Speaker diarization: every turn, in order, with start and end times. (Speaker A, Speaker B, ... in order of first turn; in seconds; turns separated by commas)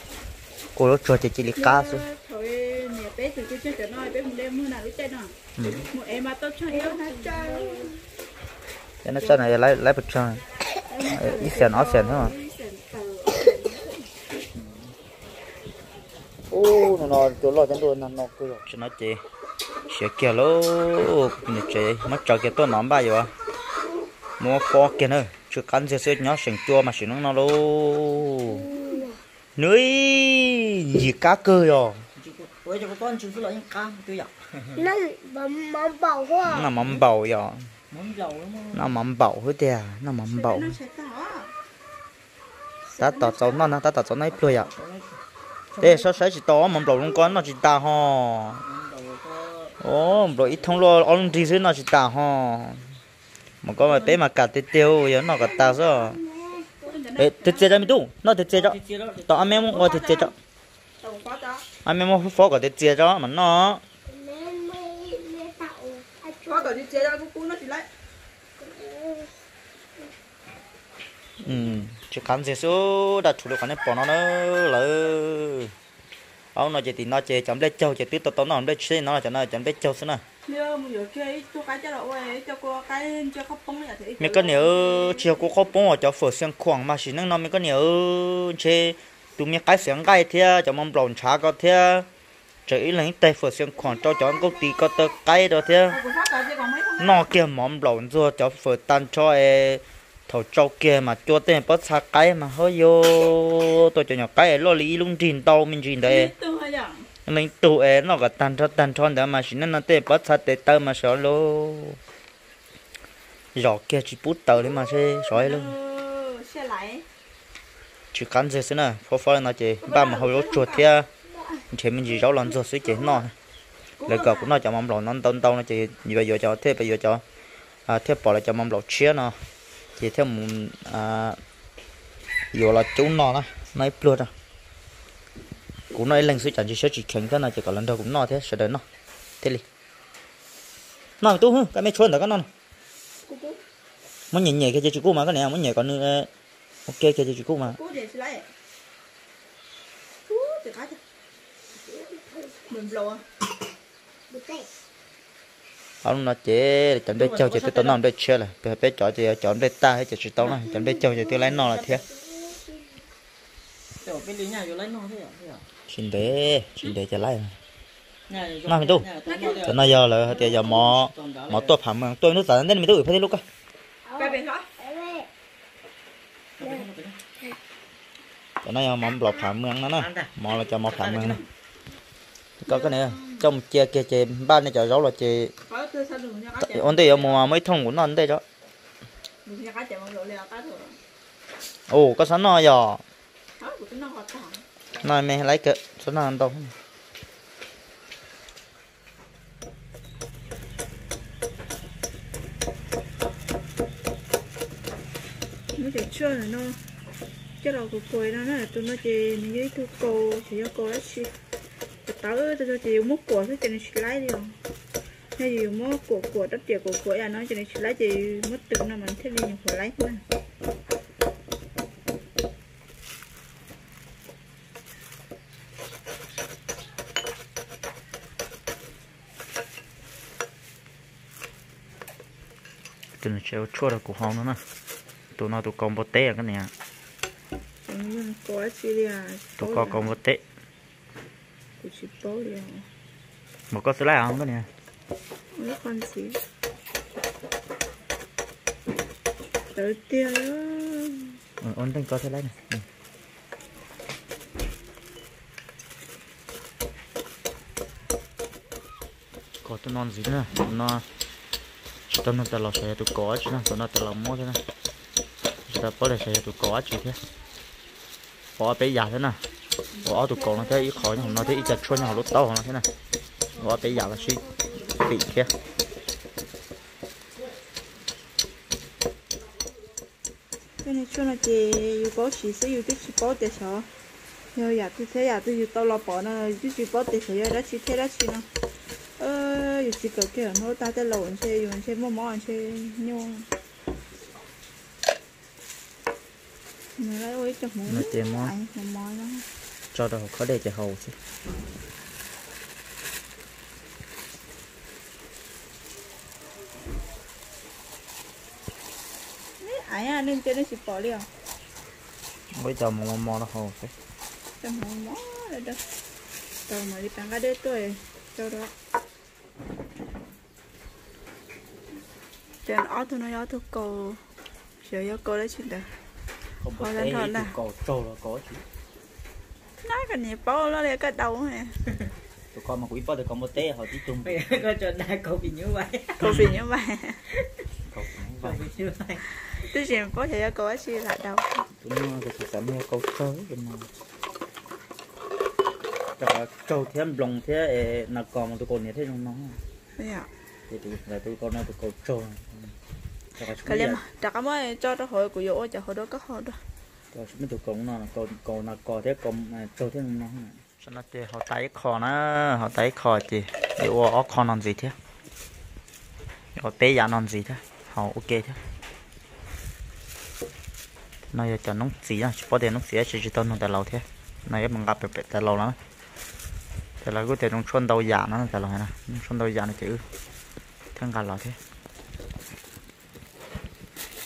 Speaker A: 0.8-2.0, Speaker B: 1.6-5.3, Speaker A: 5.6-5.8, Speaker B: 5.9-7.9, Speaker C: 6.7-7.9, Speaker A: 9.0-10.4, Speaker B: 10.9-14.0, Speaker A: 11.1-12.3, Speaker A: 14.5-14.9, Speaker A: 16.5-19.2, Speaker A: 19.9-23.3, Speaker A: 24.4-28.6, Speaker C: 28.5-29.2, Speaker A: 29.6-32.0, Speaker D: 32.1-34.8, Speaker C: 34.8-36.6, Speaker A: 36.4-37.6, Speaker D: 37.9-38.9, Speaker A: 38.7-40.7, Speaker B: 40.3-41.5, Speaker B: 42.9-43.7, Speaker A: 43.0-44.7, Speaker D: 44.3-45.1, Speaker D: 45.7-46.1, Speaker A: 45.8-48.6, Speaker D: 48.6-50.8, Speaker A: 49.8-52.9, Speaker A: 53.6-56.2, Speaker D: 53.8-54.2, Speaker C: 55.3-56.9, Speaker B: 56.9-57.9, Speaker A: 57.2-60.3, Speaker D: 58.5-59.9, Speaker B: 59.7-60.3, Speaker B: 61.0-61.6, Speaker A: 61.8-63.8, Speaker C: 64.1-66.7, Speaker B: 66.4-67.9, Speaker C: 68.6-69.3, Speaker A: 71.4-75.7, Speaker A: 76.5-80.2, Speaker B: 80.5-85.5, Speaker A: 84.2-92.1, Speaker A: 92.7-96.0, Speaker B: 95.9-97.3, Speaker A: 97.0-106.3, Speaker B: 106.0-107.1, Speaker A: 107.2-112.0, Speaker A: 113.5-115.7, Speaker B: 114.7-117.0, Speaker A: 118.1-121.1, Speaker B: 119.8-120.9, Speaker C: 121.3-121.6, Speaker A: 121.7-123.3, Speaker B: 124.0-124.5, Speaker A: 124.1-127.2, Speaker A: 127.9-129.3, Speaker A: 130.0-131.4, Speaker A: 132.5-134.3, Speaker A: 135.9-138.8, Speaker A: 141.2-142.5, Speaker B: 143.2-143.6, Speaker A: 144.3-146.3, Speaker A: 146.9-147.8, Speaker B: 147.7-148.5, Speaker B: 150.3-151.0, Speaker C: 151.7-152.6, Speaker B: 152.7-153.2, Speaker C: 154.3-154.7, Speaker A: 156.0-162.0, Speaker D: 157.1-158.0, Speaker C: 160.7-163.0, Speaker D: 163.9-165.7, Speaker A: 165.9-167.6, Speaker D: 168.3-171.8, Speaker A: 168.7-169.1, Speaker A: 169.6-173.4, Speaker C: 174.1-175.3, Speaker B: 174.2-174.7, Speaker D: 176.6-177.2, Speaker A: 178.6-181.4, Speaker D: 180.0-181.4, Speaker A: 182.6-185.5, Speaker B: 182.6-183.4, Speaker B: 185.7-187.4, Speaker A: 186.6-188.4, Speaker B: 189.4-191.0, Speaker A: 191.9-193.0, Speaker B: 193.6-194.6, Speaker A: 195.0-196.7, Speaker B: 205.7-206.8, Speaker B: 207.6-211.3, Speaker B: 212.0-214.6, Speaker B: 215.4-220.2, Speaker A: 233.2-234.6, Speaker A: 235.4-236.7, Speaker B: 237.9-240.1, Speaker A: 239.6-240.4, Speaker B: 241.8-242.8, Speaker A: 243.7-244.7, Speaker B: 245.5-246.4, Speaker B: 249.7-251.3, Speaker A: 251.6-252.8, Speaker A: 259.6-261.0, Speaker A: 262.1-264.6, Speaker A: 265.7-267.2, Speaker A: 268.6-269.4, Speaker B: 270.0-272.2, Speaker A: 270.0-272.9, Speaker A: 273.6-275.5, Speaker B: 280.8-283.9, Speaker B: 284.5-288.5, Speaker B: 289.2-293.5, Speaker B: 297.0-299.4, Speaker A: 297.9-298.5, Speaker A: 299.9-301.2, Speaker B: 309.6-311.3, Speaker A: 312.5-313.9, Speaker B: 314.6-315.8, Speaker B: 316.7-318.7, Speaker B: 322.6-324.2, Speaker B: 324.8-325.9, Speaker A: 326.6-328.6, Speaker B: 326.8-327.5, Speaker B: 329.8-331.8, Speaker A: 332.5-334.6, Speaker D: 334.2-336.6, Speaker B: 336.2-337.2, Speaker A: 337.9-338.6, Speaker D: 338.4-339.3, Speaker B: 339.4-341.6, Speaker A: 341.8-343.9, Speaker A: 346.2-349.6, Speaker B: 350.0-350.3, Speaker A: 350.7-352.7, Speaker A: 353.4-354.0, Speaker B: 353.6-356.6, Speaker A: 357.1-364.9, Speaker A: 366.5-368.6, Speaker A: 371.3-375.8, Speaker A: 377.0-380.0, Speaker A: 380.9-381.6